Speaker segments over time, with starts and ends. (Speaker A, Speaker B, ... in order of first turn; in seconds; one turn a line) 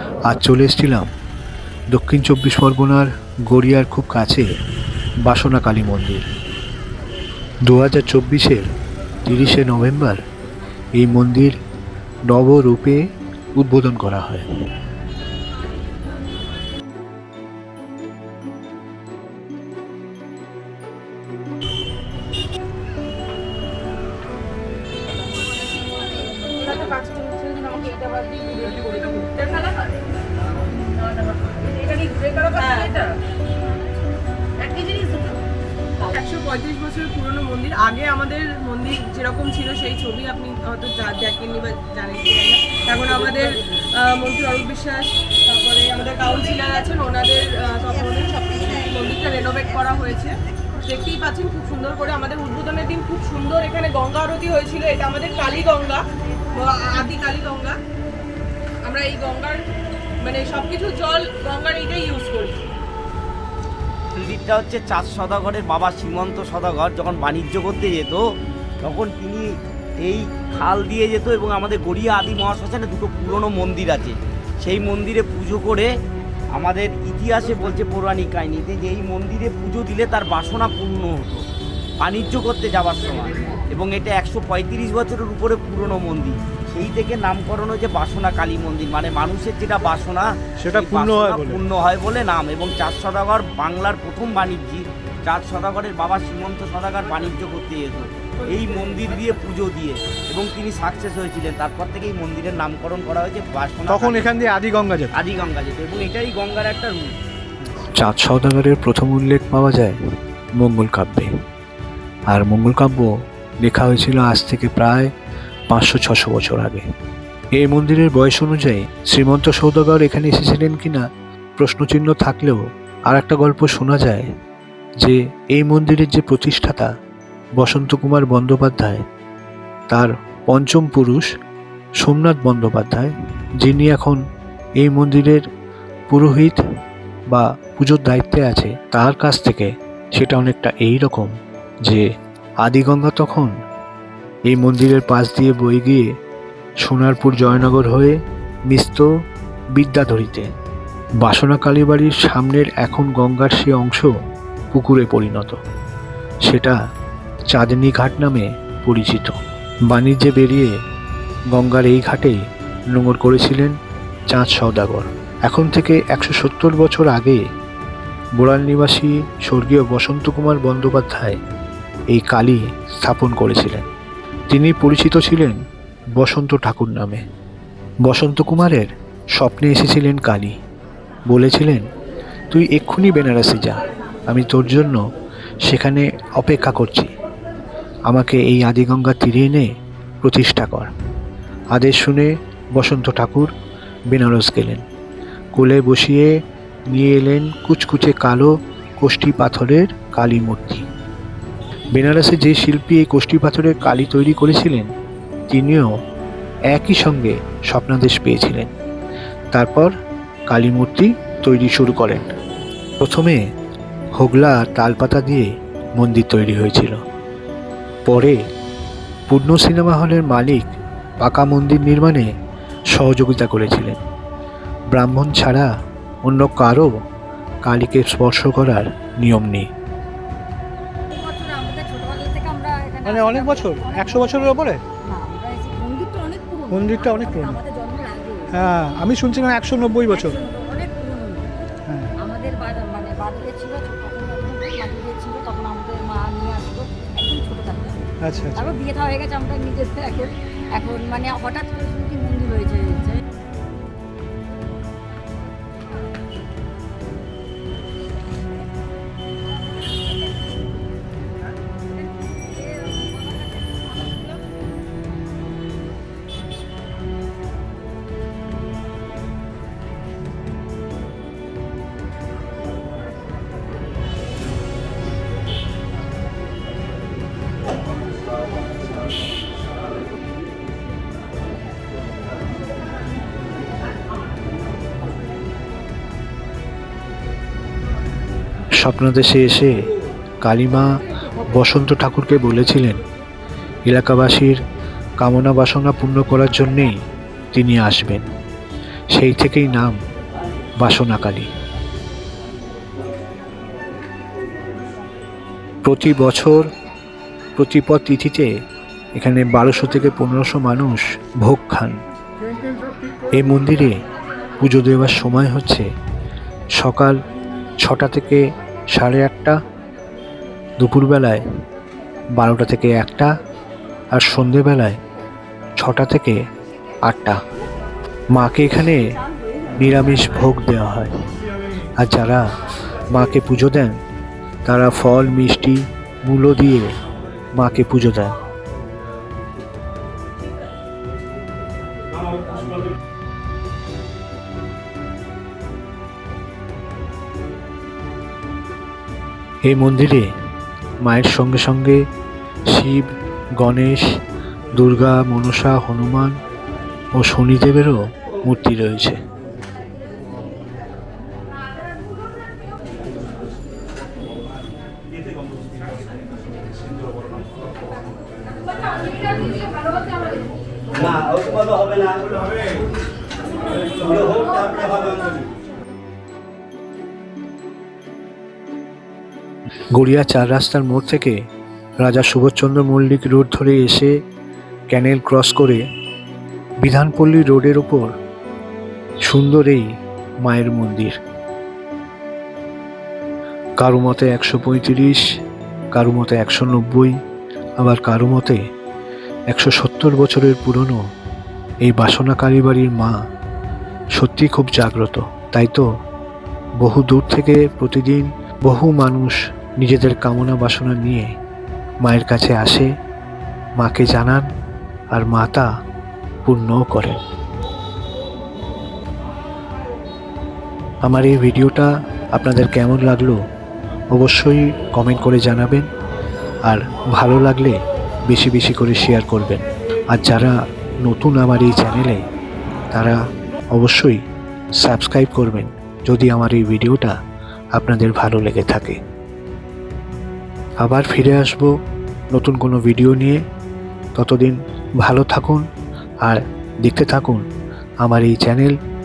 Speaker A: 0.3-1.1
Speaker A: 1.9-4.5
Speaker A: 5.2-6.2
Speaker A: 7.7-8.6
Speaker A: 9.2-10.2
Speaker A: 10.9-11.6
Speaker A: 12.3-13.0
Speaker A: 13.6-14.4
Speaker B: 26.6-29.8
Speaker C: 28.2-28.7
Speaker B: 30.9-33.2
Speaker B: 34.6-35.4
Speaker B: 36.0-57.8
Speaker B: 58.8-59.6
Speaker B: 60.2-62.5
Speaker D: 64.1-68.2
Speaker D: 68.8-69.5
Speaker D: 70.0-75.9
Speaker D: 76.5-81.4
Speaker D: 82.0-104.6
Speaker E: 90.6-91.6
Speaker E: 103.9-105.1
Speaker D: 105.1-107.2
Speaker A: 107.9-110.0
Speaker A: 110.6-111.3
Speaker A: 112.3-113.1
Speaker A: 113.6-115.1
Speaker A: 115.7-116.8
Speaker A: 117.5-121.0
Speaker A: 121.6-124.3
Speaker A: 125.0-126.9
Speaker A: 127.6-129.0
Speaker A: 129.9-131.3
Speaker A: 132.0-134.2
Speaker A: 134.8-135.4
Speaker A: 136.1-136.6
Speaker A: 137.3-141.3
Speaker A: 142.6-143.5
Speaker A: 144.5-146.1
Speaker A: 146.8-148.2
Speaker A: 148.7-149.1
Speaker A: 149.7-150.5
Speaker A: 151.2-154.1
Speaker A: 154.7-155.6
Speaker A: 156.4-156.8
Speaker A: 157.5-159.3
Speaker A: 159.9-160.7
Speaker A: 161.5-162.4
Speaker A: 162.9-163.8
Speaker A: 164.3-167.4
Speaker A: 168.4-171.4
Speaker A: 172.1-173.8
Speaker A: 174.5-175.6
Speaker A: 176.2-177.2
Speaker A: 178.0-180.6
Speaker A: 181.3-181.8
Speaker A: 182.5-185.0
Speaker A: 185.6-187.1
Speaker A: 188.1-189.7
Speaker A: 190.2-190.9
Speaker A: 191.7-193.5
Speaker A: 194.1-194.8
Speaker A: 195.5-196.3
Speaker A: 196.9-200.9
Speaker A: 201.9-204.9
Speaker A: 205.5-205.9
Speaker A: 206.7-208.7
Speaker A: 209.5-209.9
Speaker A: 210.5-212.3
Speaker A: 213.0-213.4
Speaker A: 214.2-217.0
Speaker A: 218.1-218.4
Speaker A: 219.3-220.7
Speaker A: 221.2-222.3
Speaker A: 222.9-224.0
Speaker A: 224.9-225.7
Speaker A: 226.2-226.9
Speaker A: 227.7-229.7
Speaker C: 231.1-238.5
Speaker E: 233.0-234.8
Speaker E: 236.7-237.6
Speaker E: 238.5-240.4
Speaker C: 240.1-241.5
Speaker E: 241.9-242.1
Speaker C: 242.2-248.0
Speaker E: 248.2-248.7
Speaker C: 248.6-253.2
Speaker A: 288.8-289.8
Speaker A: 290.4-293.0
Speaker A: 293.9-294.6
Speaker A: 295.2-297.0
Speaker A: 297.5-298.3
Speaker A: 299.1-299.9
Speaker A: 300.8-301.5
Speaker A: 305.8-306.7
Speaker A: 307.6-308.5
Speaker A: 309.1-312.0
Speaker A: 313.3-314.0
Speaker A: 314.6-315.9
Speaker A: 316.8-317.2
Speaker A: 317.8-319.6
Speaker A: 320.8-321.4
Speaker A: 322.4-323.3
Speaker A: 324.1-325.0
Speaker A: 325.8-326.4
Speaker A: 327.0-327.4
Speaker A: 328.3-329.0
Speaker A: 329.7-331.1
Speaker A: 332.0-332.4
Speaker A: 333.1-333.9
Speaker A: 334.6-336.9
Speaker A: 337.6-338.4
Speaker A: 349.6-350.3
Speaker A: 351.0-352.0
Speaker A: 352.7-354.1
Speaker A: 354.7-356.4
Speaker A: 357.1-359.2
Speaker D: 370.9-372.6
Speaker D: 373.9-375.3
Speaker A: 379.9-381.4
Speaker A: 382.0-384.1
Speaker A: 384.9-385.8
Speaker A: 386.8-388.1
Speaker A: 389.2-389.9
Speaker A: 390.4-391.2
Speaker A: 393.8-395.2
Speaker A: 395.9-397.1
Speaker A: 397.8-398.6
Speaker A: 399.5-401.0
Speaker A: 401.8-403.1
Speaker A: 404.2-405.8
Speaker A: 406.8-411.3
Speaker A: 412.0-412.9
Speaker A: 413.8-414.5
Speaker A: 415.1-415.7
Speaker A: 416.4-417.2
Speaker A: 421.0-423.4
Speaker A: 424.1-425.9
Speaker A: 426.6-432.2
Speaker A: 432.9-433.2
Speaker A: 433.7-434.2
Speaker A: 434.8-437.1
Speaker A: 437.7-439.0
Speaker A: 440.8-441.7
Speaker A: 442.3-443.4
Speaker A: 444.1-445.6
Speaker A: 446.2-447.4
Speaker A: 448.0-448.8